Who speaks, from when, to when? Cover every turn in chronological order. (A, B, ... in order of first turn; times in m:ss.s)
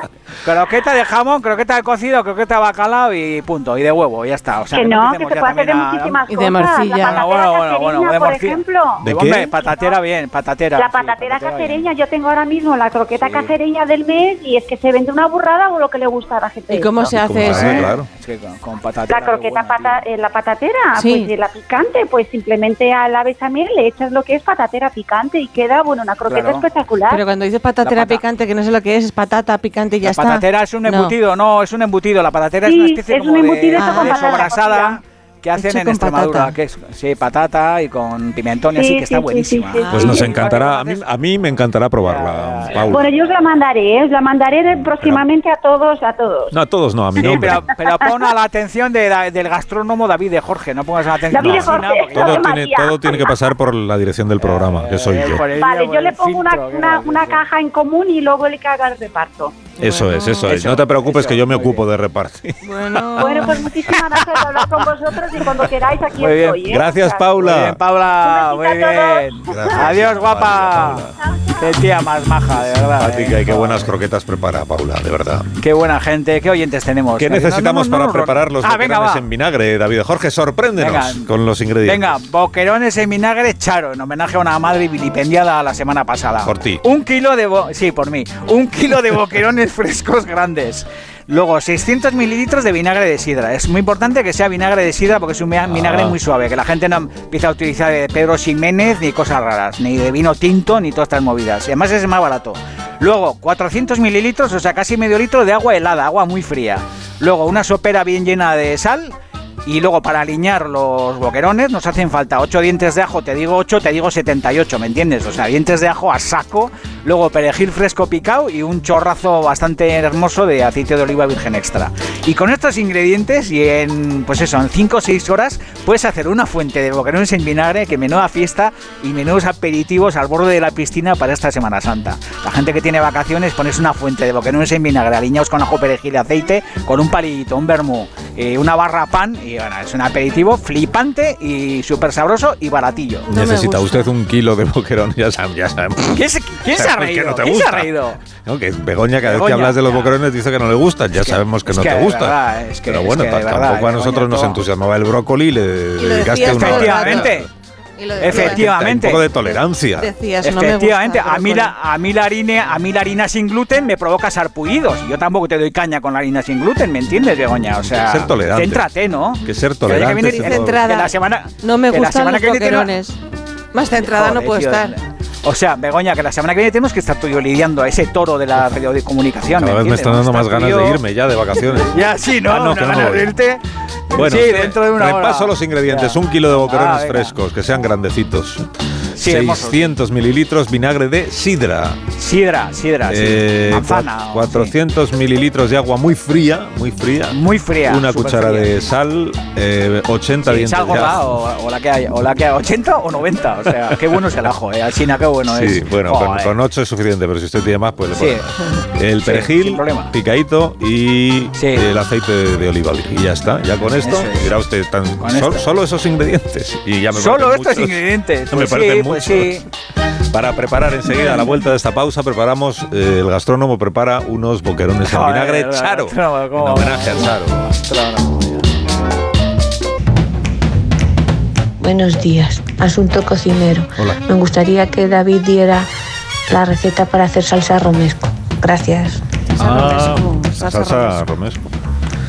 0:00.4-0:06.2 A
0:04.7-0:09.1 B
0:06.3-0:07.2 C
0:07.0-0:11.9 A
0:09.0-0:09.5 D
0:10.8-0:17.0 B
0:13.2-0:13.5 A
0:16.7-0:17.9 C
0:17.1-0:18.1 D
0:17.4-0:20.0 A
0:19.1-0:27.2 B
0:21.0-0:21.3 C
0:26.3-0:26.6 A
0:27.1-0:31.2 C
0:27.8-0:28.2 A
0:30.0-0:41.0 A
0:32.6-0:35.0 B
0:33.8-0:34.2 C
0:35.6-0:36.5 C
0:38.7-0:40.6 B
0:39.8-0:40.1 C
0:39.9-0:43.1 D
0:42.0-0:43.4 A
0:42.9-0:46.5 B
0:46.5-0:47.6 D
0:47.2-0:52.5 A
0:47.9-0:48.2 B
0:51.3-0:53.5 B
0:51.4-0:55.4 D
0:54.4-0:57.4 A
0:55.4-0:59.7 B
0:59.8-1:03.2 D
0:59.8-1:00.5 C
1:00.4-1:01.8 A
1:02.6-1:03.6 C
1:03.2-1:07.4 B
1:06.1-1:06.6 A
1:06.6-1:07.8 D
1:07.4-1:13.9 A
1:08.1-1:09.8 B
1:09.5-1:11.1 D
1:11.2-1:11.8 B
1:12.9-1:15.5 D
1:15.6-1:19.2 A
1:17.2-1:22.0 D
1:20.8-1:21.3 A
1:21.8-2:23.3 A
1:26.4-1:26.8 D
1:35.7-1:36.2 D
2:23.3-2:24.1 C
2:23.3-2:37.5 D
2:26.1-2:28.2 A
2:29.2-2:30.1 A
2:31.2-2:34.6 A
2:36.0-2:37.4 C
2:36.4-2:37.5 A
2:38.0-2:38.7 C
2:38.2-2:39.3 A
2:38.2-2:40.1 D
2:40.0-2:41.7 C
2:40.4-2:52.9 A
2:48.0-2:48.9 D
2:49.4-2:50.8 D
2:50.2-2:53.2 C
2:53.7-2:54.9 C
2:54.0-3:01.0 A
2:59.6-3:03.3 D
3:01.8-3:07.4 A
3:04.1-3:12.1 D
3:09.2-3:09.9 A
3:12.2-3:14.7 A
3:13.1-3:21.2 D
3:17.3-3:18.8 A
3:20.4-3:26.6 A
3:25.5-3:39.6 D
3:28.2-3:28.4 A
3:29.2-3:30.1 A
3:31.6-3:31.9 A
3:34.0-3:34.5 A
3:35.2-3:35.6 A
3:37.1-3:39.6 A
3:40.3-3:47.6 D
3:45.0-3:48.7 A
3:51.8-3:55.9 E
3:56.5-3:59.2 E
3:59.5-4:01.2 C
3:59.6-4:01.7 D